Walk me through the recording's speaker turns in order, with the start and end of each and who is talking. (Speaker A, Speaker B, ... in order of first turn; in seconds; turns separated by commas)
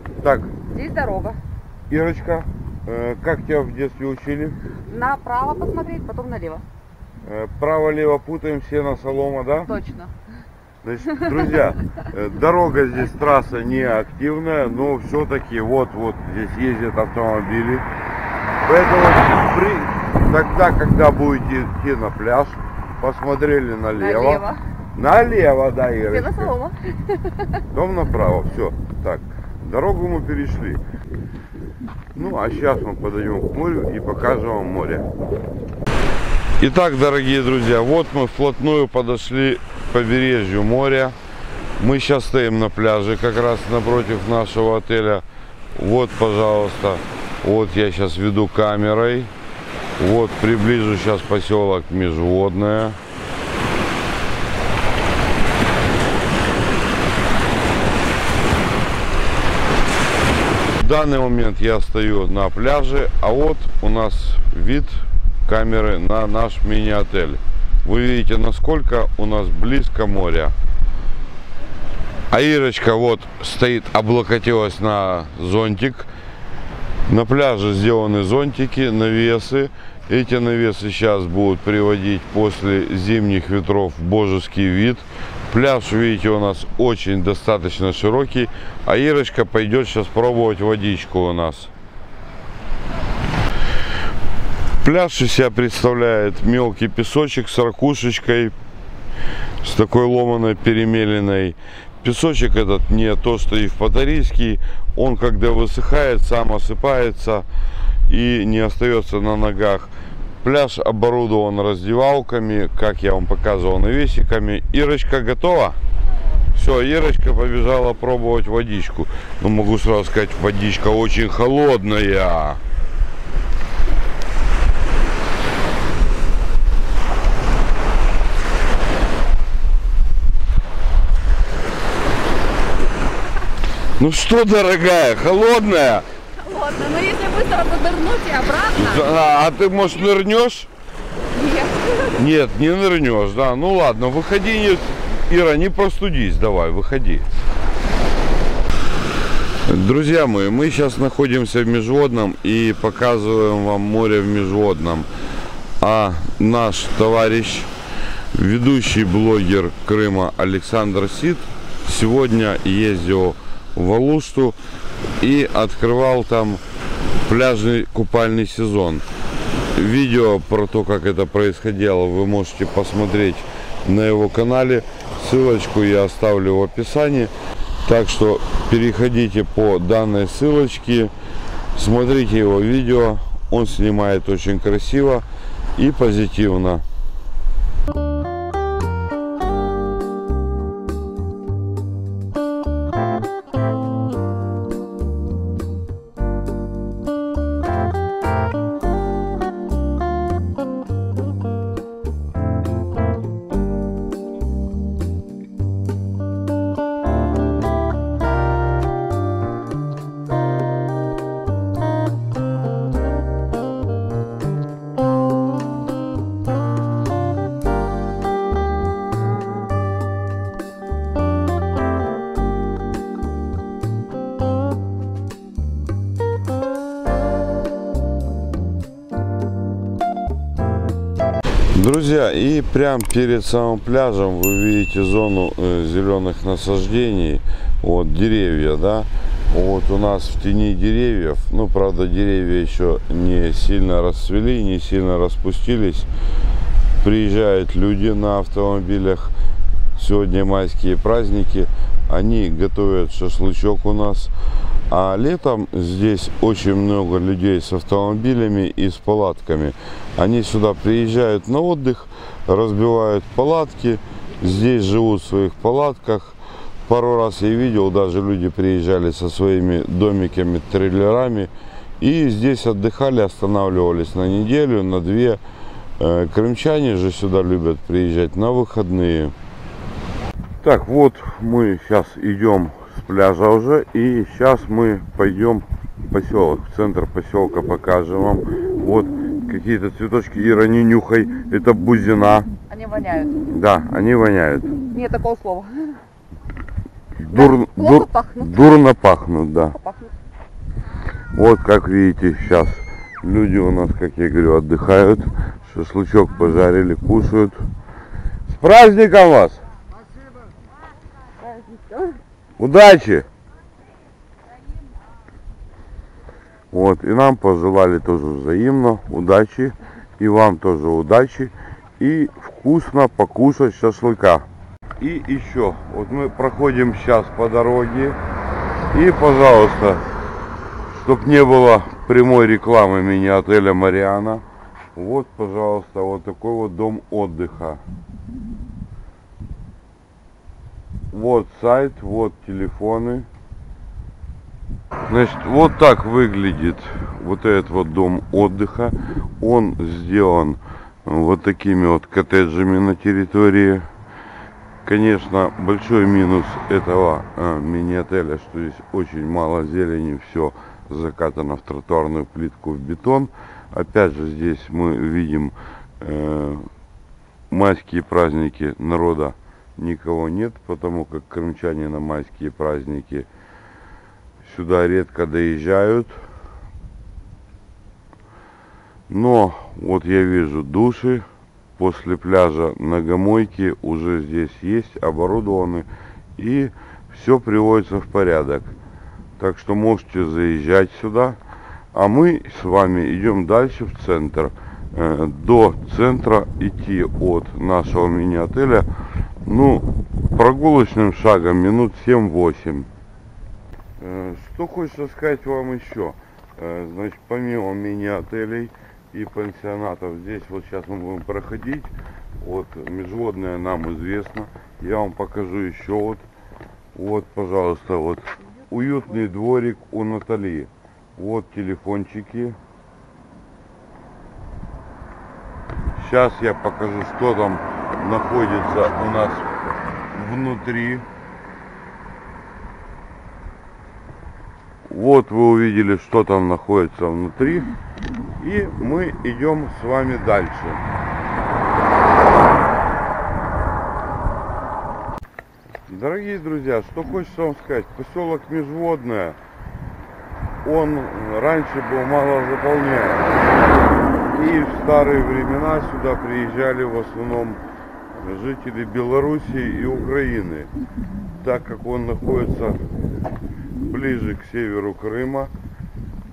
Speaker A: 0.2-0.5, Speaker B: 0.6-1.4, Speaker A: 1.9-4.6, Speaker B: 4.9-6.6, Speaker A: 7.2-9.7, Speaker B: 9.7-10.1, Speaker A: 10.8-17.9, Speaker A: 18.6-24.4, Speaker B: 23.9-24.6, Speaker A: 24.9-26.5, Speaker B: 26.1-27.6, Speaker A: 27.7-30.8, Speaker A: 32.1-35.1, Speaker A: 36.6-41.1, Speaker A: 41.8-45.2, Speaker A: 45.8-49.3, Speaker A: 50.0-53.0, Speaker A: 60.8-70.5, Speaker A: 72.3-76.1, Speaker A: 77.1-91.7, Speaker A: 94.8-98.5, Speaker A: 99.6-107.5, Speaker A: 108.1-109.9, Speaker A: 110.4-115.8, Speaker A: 116.5-122.6, Speaker A: 134.0-136.1, Speaker B: 136.4-139.1, Speaker A: 138.8-140.7, Speaker B: 141.3-142.2, Speaker A: 142.1-147.3, Speaker A: 149.7-155.1, Speaker A: 155.8-157.7, Speaker A: 158.3-164.6, Speaker A: 165.2-166.6, Speaker A: 167.3-169.1, Speaker A: 169.8-177.3, Speaker A: 177.8-181.1, Speaker A: 181.8-186.8, Speaker A: 231.7-246.1, Speaker A: 247.0-249.3, Speaker A: 250.0-254.3, Speaker A: 254.9-275.4, Speaker A: 276.0-279.3, Speaker A: 280.6-292.5, Speaker B: 292.7-293.4, Speaker A: 293.5-294.8, Speaker B: 294.9-295.9, Speaker A: 297.2-299.8, Speaker B: 297.3-298.8, Speaker B: 299.7-300.1, Speaker A: 301.3-307.6, Speaker A: 308.5-309.6, Speaker B: 311.4-312.2, Speaker A: 312.6-313.3, Speaker A: 316.7-324.5, Speaker A: 325.0-328.2, Speaker A: 328.9-330.0, Speaker A: 331.0-334.4, Speaker A: 334.9-337.8, Speaker A: 341.1-343.3, Speaker A: 345.1-353.9, Speaker A: 354.8-366.7, Speaker A: 367.5-373.3, Speaker A: 374.4-376.2, Speaker A: 379.1-381.3, Speaker A: 381.8-388.7, Speaker A: 389.4-391.4, Speaker A: 391.9-398.9, Speaker A: 399.4-402.9, Speaker A: 404.0-416.2, Speaker A: 416.9-422.6, Speaker A: 426.0-429.5, Speaker A: 430.1-431.1, Speaker A: 434.9-437.7, Speaker A: 438.4-440.8, Speaker A: 445.9-449.4, Speaker A: 450.6-453.4, Speaker A: 454.3-457.6, Speaker A: 458.2-460.7, Speaker A: 461.4-462.8, Speaker A: 463.9-465.5